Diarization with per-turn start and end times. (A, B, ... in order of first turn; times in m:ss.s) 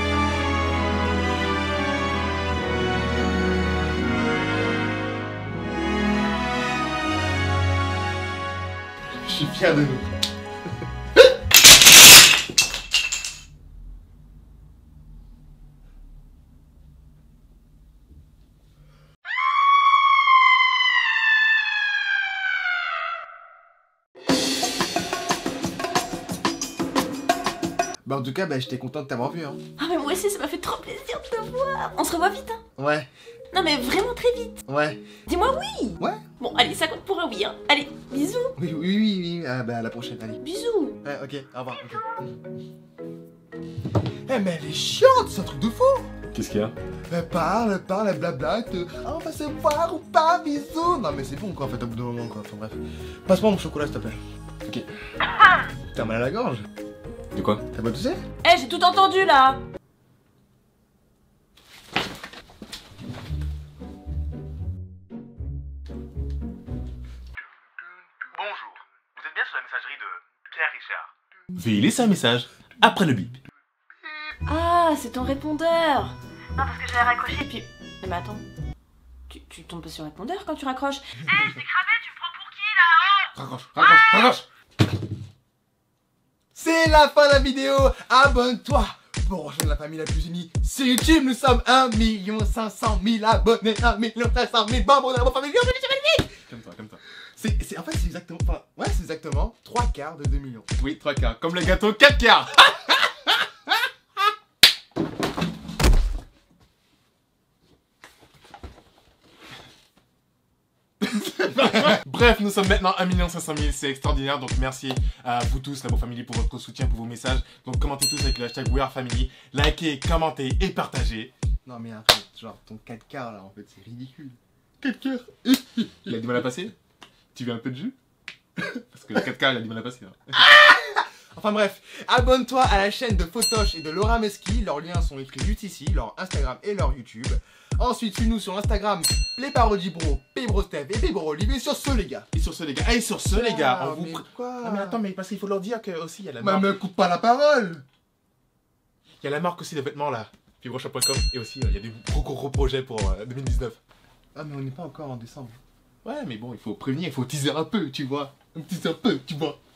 0:09.2-0:10.1 A
0:28.0-0:29.6 A
0:29.8-0:32.6 B
0:32.8-0:33.1 A
0:33.5-0:34.6 B
0:34.7-0:35.0 A
0:35.3-0:38.5 B
0:38.6-0:40.4 A
0:40.4-0:41.0 B
0:41.0-0:42.4 A
0:44.3-0:46.1 A
0:46.3-0:46.7 C
0:47.1-0:54.2 A
0:55.9-0:56.7 A
0:57.3-0:57.6 C
0:57.7-0:58.2 A
0:58.4-0:59.6 B
1:08.2-1:13.4 C
1:14.5-1:18.4 B
1:19.3-1:23.3 B
1:23.4-1:24.4 C
1:26.5-1:36.4 A
1:36.5-1:37.0 C
1:37.4-1:40.7 A
1:40.8-1:43.0 C
1:51.0-2:01.3 C
2:01.7-2:04.4 A
2:04.8-2:05.3 C
2:05.4-2:06.1 A
2:06.0-2:06.7 C
2:07.3-2:08.0 C
2:08.6-2:10.3 C
2:10.3-2:22.3 A
2:22.3-2:26.7 C
2:23.3-2:25.0 A
2:26.4-2:27.8 A
2:29.2-2:33.8 C
2:34.4-2:35.6 A
2:36.0-2:39.5 C